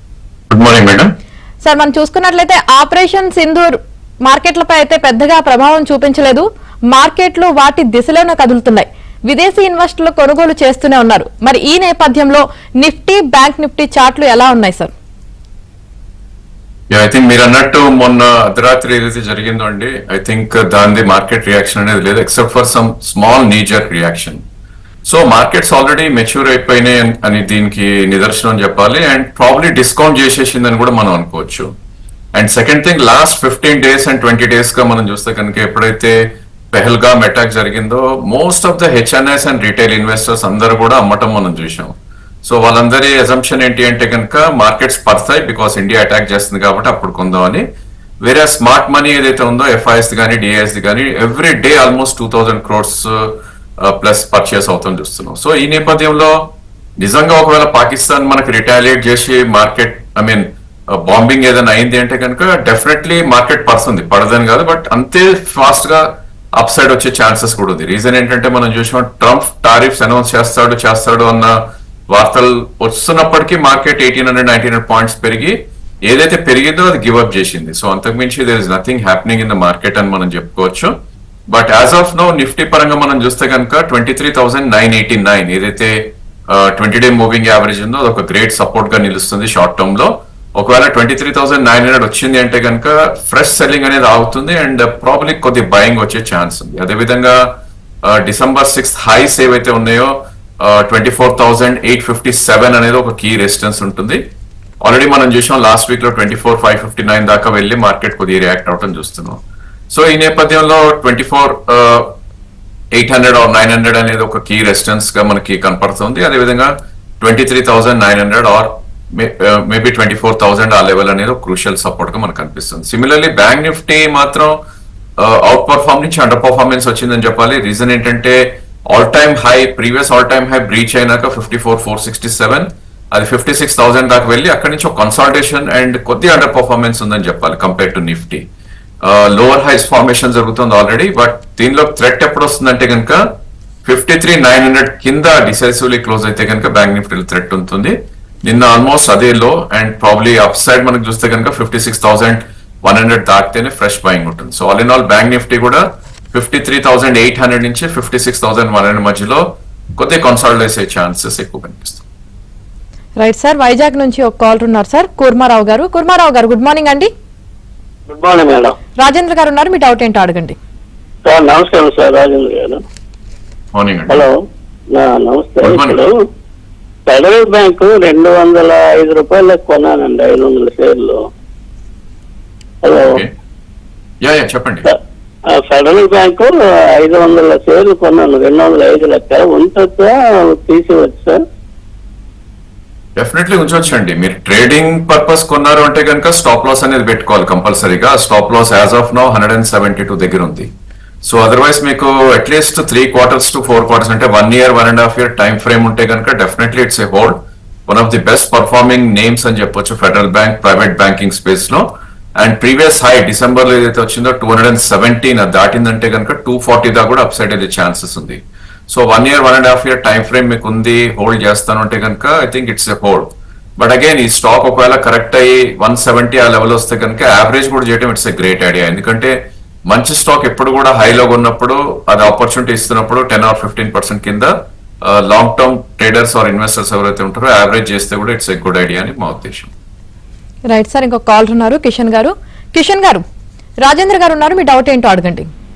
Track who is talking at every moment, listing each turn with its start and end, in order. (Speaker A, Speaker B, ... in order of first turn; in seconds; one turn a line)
Speaker A: 0.5-1.1
Speaker B: 1.6-14.9
Speaker A: 16.9-24.4
Speaker A: 25.0-31.7
Speaker A: 32.3-47.6
Speaker A: 48.2-80.9
Speaker A: 81.5-104.2
Speaker A: 104.8-112.1
Speaker A: 112.9-124.6
Speaker A: 125.2-138.5
Speaker A: 139.0-159.4
Speaker A: 160.0-162.0
Speaker B: 163.2-167.1
Speaker C: 168.1-168.8
Speaker B: 169.0-170.6
Speaker C: 171.2-172.8
Speaker A: 173.7-174.2
Speaker C: 174.9-176.1
Speaker A: 175.6-176.0
Speaker C: 177.1-181.2
Speaker C: 182.8-183.2
Speaker A: 183.0-183.3
Speaker A: 184.2-184.9
Speaker C: 185.5-191.4
Speaker A: 193.2-200.7
Speaker A: 201.2-211.9
Speaker A: 212.4-229.3
Speaker A: 229.9-239.7
Speaker B: 240.7-243.2
Speaker B: 243.8-245.5